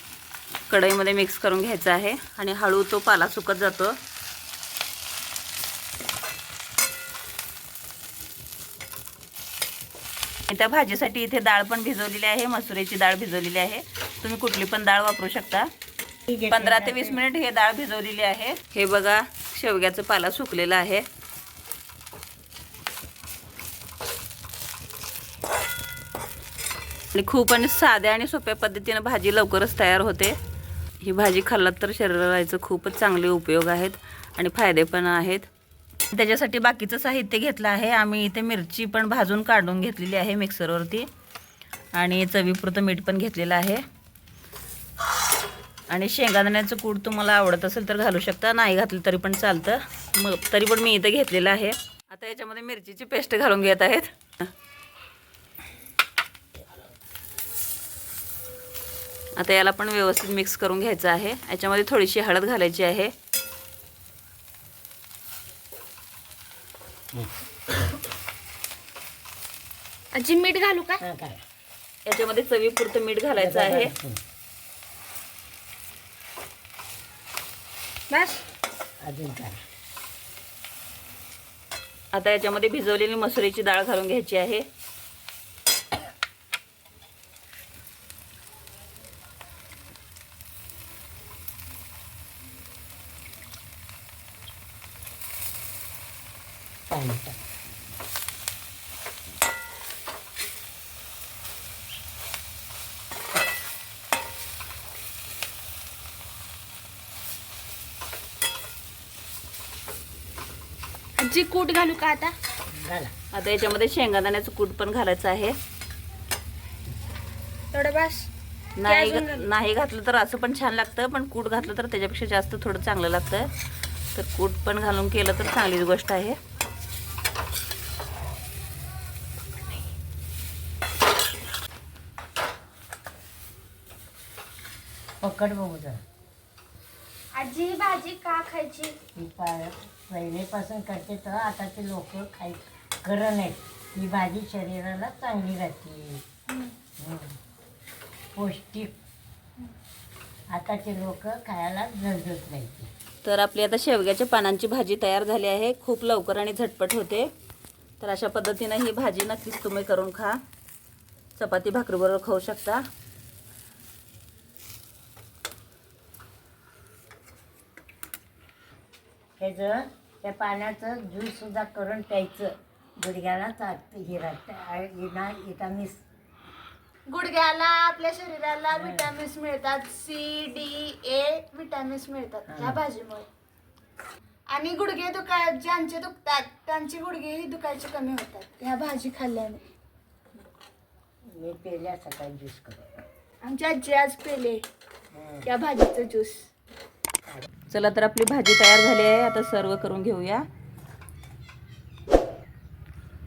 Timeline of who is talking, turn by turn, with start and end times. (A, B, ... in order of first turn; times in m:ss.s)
0:00.7-0:04.0 A
0:10.5-0:15.7 A
0:16.3-0:17.2 B
0:16.5-0:21.0 A
0:27.1-0:30.4 A
0:31.0-0:35.4 A
0:36.1-0:41.1 A
0:41.9-0:43.8 A
0:45.9-0:54.5 A
0:59.4-1:03.1 A
1:10.1-1:11.0 C
1:11.0-1:11.4 B
1:12.0-1:13.9 A
1:13.4-1:14.2 B
1:18.1-1:18.4 C
1:19.0-1:19.6 B
1:22.1-1:24.6 A
1:36.9-1:37.4 B
1:51.2-1:52.4 C
1:52.7-1:53.1 B
1:53.3-1:55.5 A
1:57.7-1:58.3 C
1:58.8-2:03.5 A
1:58.8-1:59.5 C
2:04.1-2:06.4 A
2:15.2-2:16.0 B
2:17.3-2:19.0 C
2:19.2-2:26.2 B
2:27.0-2:27.4 B
2:28.3-2:28.9 B
2:30.5-2:32.9 B
2:33.2-2:37.3 A
2:38.0-2:40.4 A
2:41.4-2:42.8 A
2:49.4-2:56.0 B
2:57.1-3:03.3 C
2:58.7-2:59.1 B
3:02.5-3:02.8 B
3:04.5-3:09.6 C
3:11.3-3:13.0 B
3:13.4-3:14.6 C
3:15.1-3:15.5 B
3:15.4-3:16.5 C
3:17.7-3:20.4 A